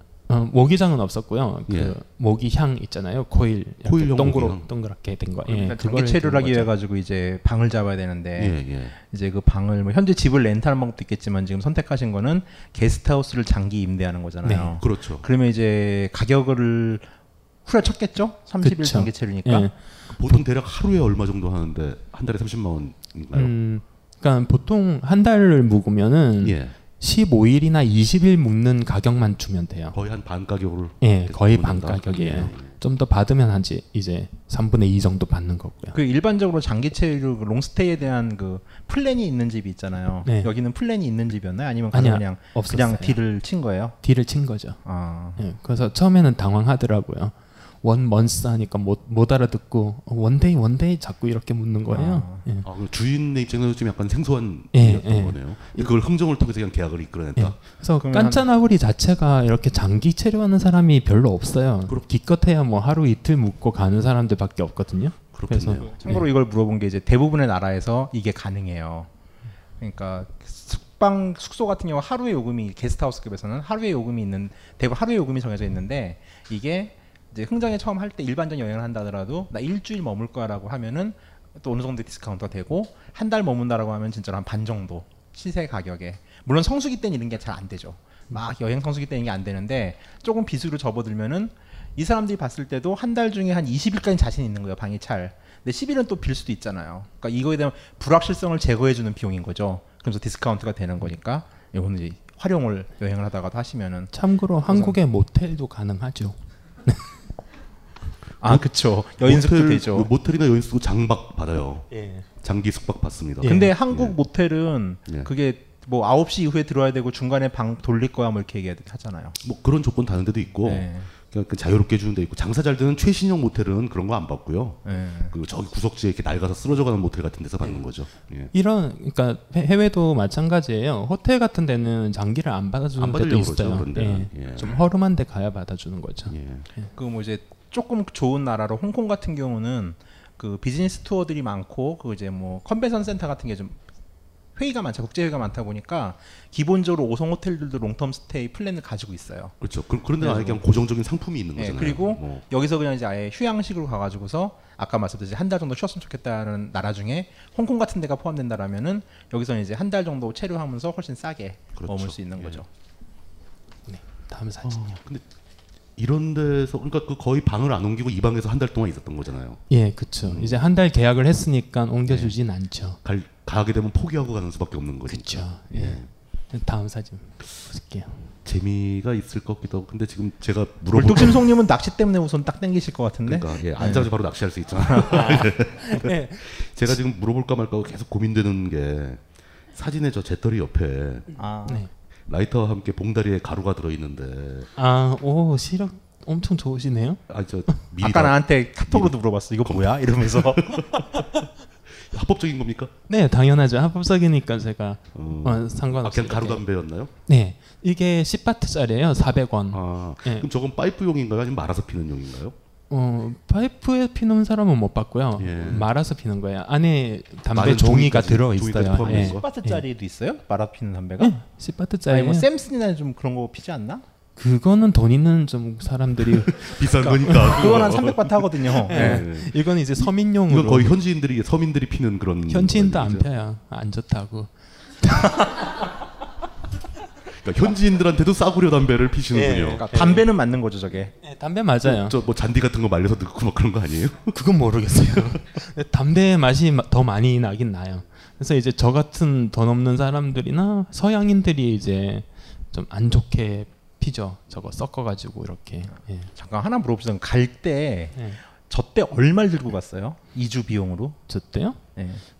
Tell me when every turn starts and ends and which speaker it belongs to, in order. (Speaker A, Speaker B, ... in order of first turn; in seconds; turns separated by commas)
Speaker A: 0.3-6.7, Speaker B: 1.7-1.9, Speaker B: 3.8-4.7, Speaker C: 5.5-17.1, Speaker B: 8.3-9.0, Speaker A: 14.4-14.7, Speaker B: 14.8-15.2, Speaker C: 17.6-19.7, Speaker A: 18.6-19.7, Speaker B: 20.1-23.6, Speaker A: 23.3-30.0, Speaker B: 26.4-26.7, Speaker B: 29.9-32.8, Speaker A: 31.0-36.0, Speaker C: 35.9-44.0, Speaker A: 40.2-40.5, Speaker A: 41.9-43.2, Speaker A: 44.0-44.8, Speaker C: 44.8-45.4, Speaker A: 45.4-52.6, Speaker C: 51.9-52.4, Speaker B: 52.6-57.6, Speaker A: 54.7-55.9, Speaker A: 57.4-66.3, Speaker C: 58.0-58.4, Speaker B: 65.3-66.0, Speaker C: 65.8-69.1, Speaker C: 69.8-104.1, Speaker A: 104.1-107.0, Speaker C: 104.7-105.0, Speaker C: 108.4-110.1, Speaker B: 108.4-111.9, Speaker A: 111.9-112.2, Speaker B: 112.4-114.2, Speaker A: 113.4-113.7, Speaker C: 113.4-119.4, Speaker B: 119.4-128.5, Speaker C: 120.6-121.1, Speaker C: 124.8-125.3, Speaker A: 128.5-136.9, Speaker B: 133.0-134.8, Speaker B: 136.3-136.7, Speaker C: 136.9-143.8, Speaker C: 144.5-149.6, Speaker B: 149.6-152.4, Speaker C: 150.2-150.6, Speaker C: 151.6-162.7, Speaker B: 161.8-162.6, Speaker A: 163.9-165.0, Speaker B: 164.6-165.2, Speaker B: 165.9-169.6, Speaker A: 169.7-173.0, Speaker B: 170.3-170.6, Speaker B: 172.1-172.3, Speaker B: 173.0-176.1, Speaker A: 175.1-178.3, Speaker B: 178.4-181.5, Speaker C: 180.9-184.1, Speaker B: 183.2-191.3, Speaker A: 185.1-186.5, Speaker C: 191.3-191.8, Speaker B: 192.3-194.7, Speaker A: 194.8-197.8, Speaker B: 197.3-202.9, Speaker C: 198.0-200.8, Speaker A: 203.1-206.6, Speaker B: 205.1-207.1, Speaker A: 207.3-210.5, Speaker B: 209.7-212.6, Speaker A: 212.9-219.8, Speaker B: 215.4-215.9, Speaker B: 217.5-219.4, Speaker C: 219.0-221.4, Speaker A: 221.2-222.5, Speaker C: 222.1-224.0, Speaker A: 224.4-227.7, Speaker B: 226.2-233.3, Speaker C: 227.2-229.2, Speaker A: 228.9-230.9, Speaker A: 232.5-235.8, Speaker B: 237.3-239.8, Speaker A: 239.3-240.3, Speaker C: 239.8-241.1, Speaker A: 241.2-242.2, Speaker B: 241.8-244.3, Speaker A: 244.3-256.3, Speaker C: 256.3-261.2, Speaker A: 261.3-261.8, Speaker C: 261.9-262.2